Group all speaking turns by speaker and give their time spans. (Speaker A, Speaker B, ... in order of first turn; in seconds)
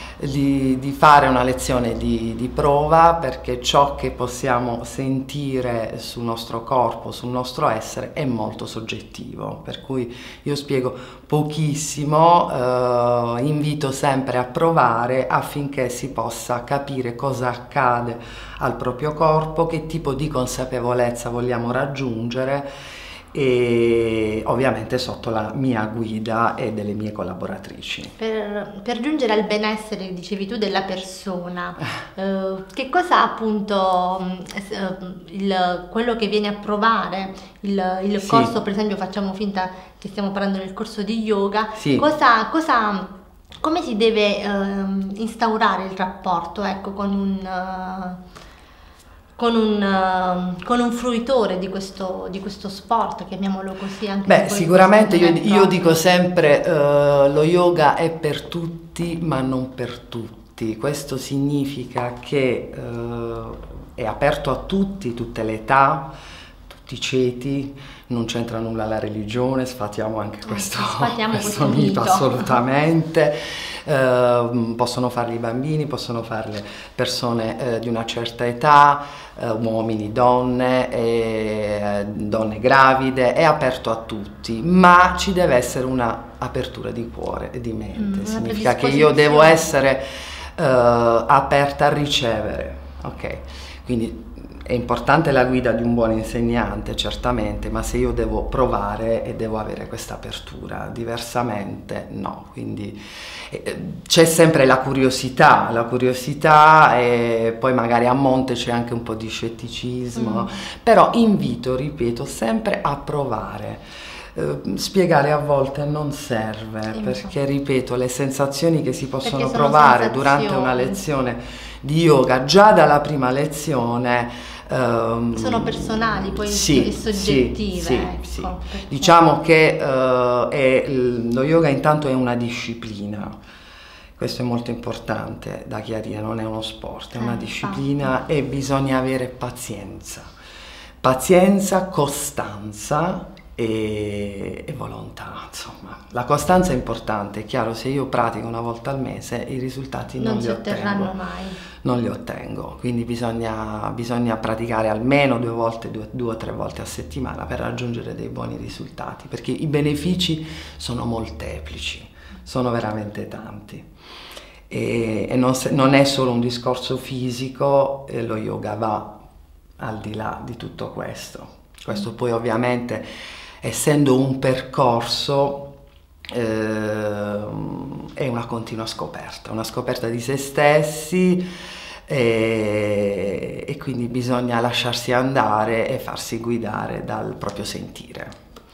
Speaker A: 0.2-22.7, 23.3-28.1, 38.2-38.5, 41.8-42.1, 54.3-66.1, 66.7-90.0, 90.6-133.4, 134.2-140.3, 141.0-151.1, 151.8-163.9, 164.7-169.2, 169.8-173.1, 173.6-175.7, 176.3-181.5, 182.1-188.4
Speaker B: 28.2-48.2, 49.4-56.0, 70.5-72.6, 88.0-89.8, 110.2-110.5, 116.9-117.3, 119.2-121.0, 125.3-129.2, 137.2-138.1, 150.2-151.6